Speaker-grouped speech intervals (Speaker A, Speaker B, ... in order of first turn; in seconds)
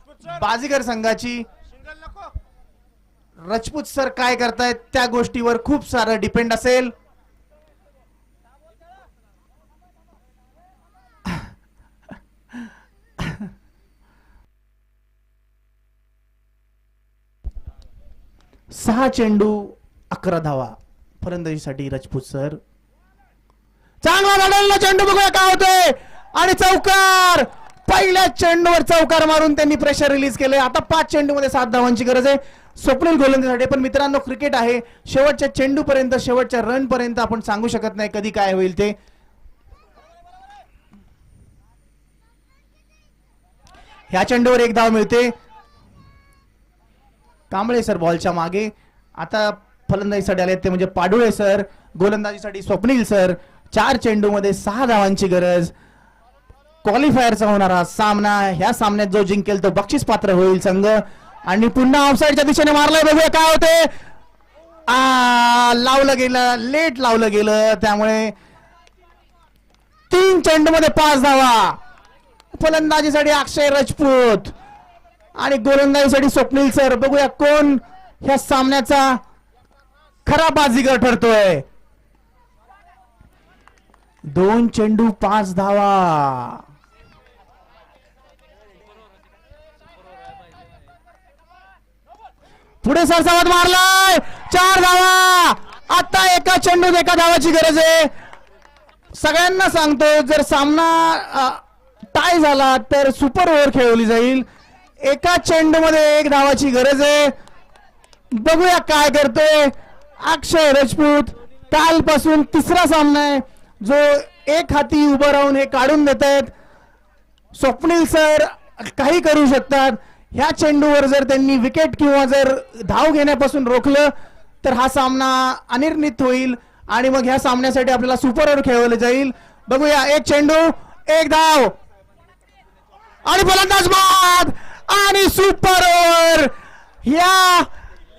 Speaker A: 0.2-1.5, 3.5-6.9, 18.7-22.6, 24.0-39.0, 44.1-45.3, 47.5-55.7, 56.8-63.9, 64.9-68.3, 70.1-71.8, 72.5-74.5, 75.4-79.2, 80.2-81.6, 84.3-86.6, 92.8-98.1, 99.1-101.6, 102.1-104.5, 105.0-107.3, 108.3-116.5, 117.5-131.8, 133.2-137.7